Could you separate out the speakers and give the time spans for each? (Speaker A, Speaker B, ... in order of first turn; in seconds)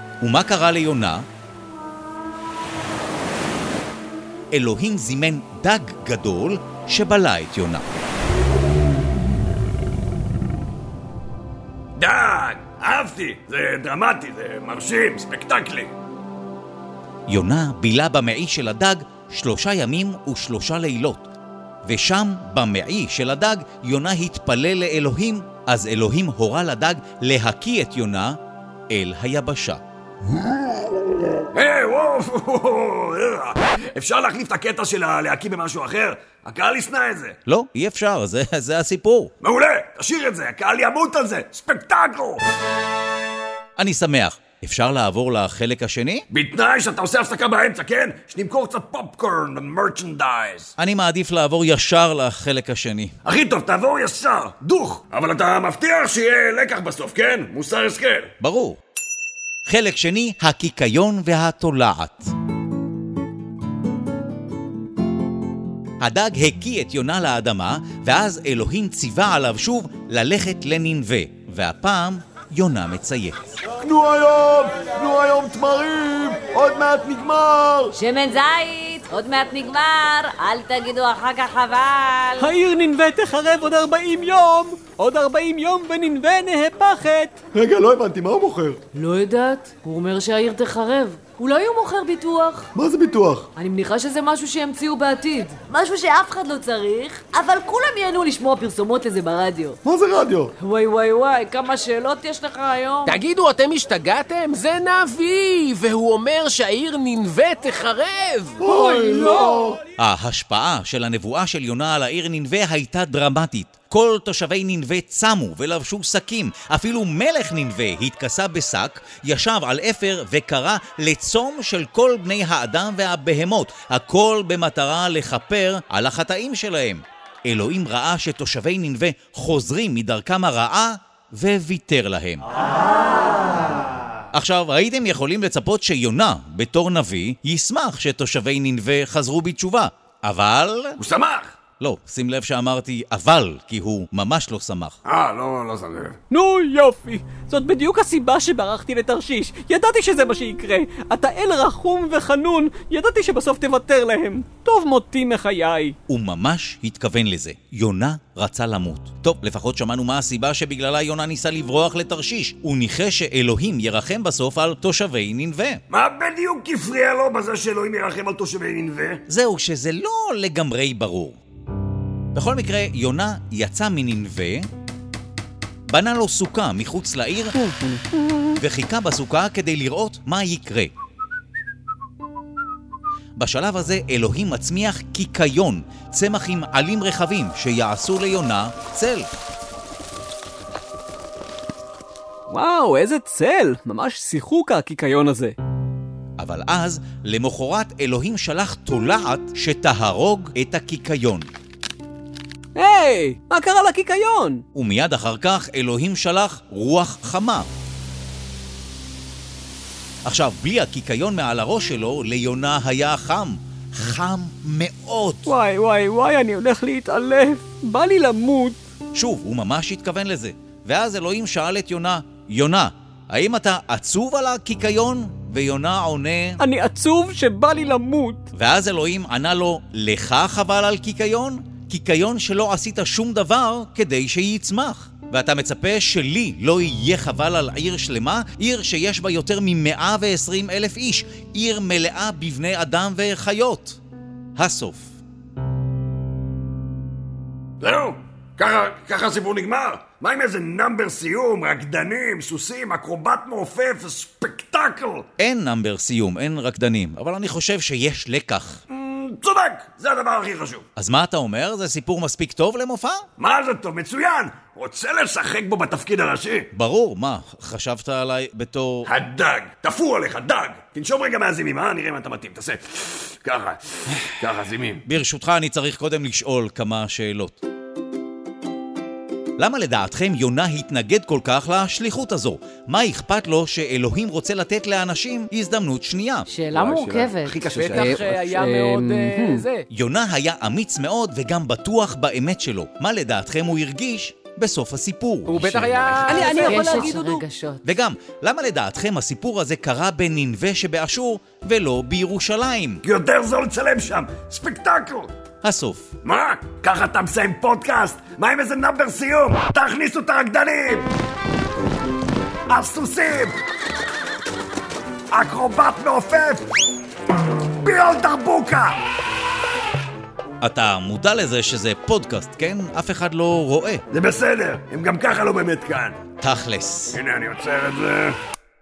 Speaker A: 0.2-1.2, 4.5-7.8, 17.3-21.3, 21.9-28.4, 28.9-29.8, 37.5-39.3, 43.8-46.3, 50.8-53.1, 58.4-58.8, 59.7-62.3, 66.0-73.5, 110.0-132.4, 134.3-141.0, 141.8-145.0, 156.1-165.8, 169.3-171.4, 172.3-174.7, 175.9-177.6, 178.6-180.9, 183.4-189.3, 196.4-201.5, 204.8-207.7, 210.2-215.5, 219.1-226.6, 228.5-244.0, 244.6-245.1, 255.4-258.8, 261.0-263.3, 266.7-269.1, 275.1-277.6, 279.6-286.5, 289.9-296.5, 297.8-303.0, 305.6-306.1, 320.6-324.0, 326.4-327.2
Speaker B: 12.0-15.9, 31.5-37.4, 39.4-42.4, 46.3-50.7, 53.2-58.3, 141.0-141.5, 145.1-146.2, 165.9-169.2, 247.8-255.3, 258.9-260.9, 263.4-266.7, 269.1-275.0, 286.7-288.5, 303.0-305.3, 306.2-311.1, 312.7-313.5, 315.3-316.7, 317.8-319.0, 324.1-326.2, 327.1-328.4
Speaker C: 73.8-78.0, 87.5-88.8, 92.8-93.5, 99.8-100.5, 108.6-109.8
Speaker D: 77.9-82.5, 88.9-92.7, 93.6-99.8, 100.6-103.2, 286.5-288.2, 296.5-297.8
Speaker E: 82.4-87.4, 146.3-156.0, 177.6-178.3, 192.5-195.6, 202.8-204.6, 215.5-218.8, 226.6-228.5, 288.5-289.6, 296.2-297.4
Speaker F: 103.1-108.7, 287.8-289.9, 295.5-296.8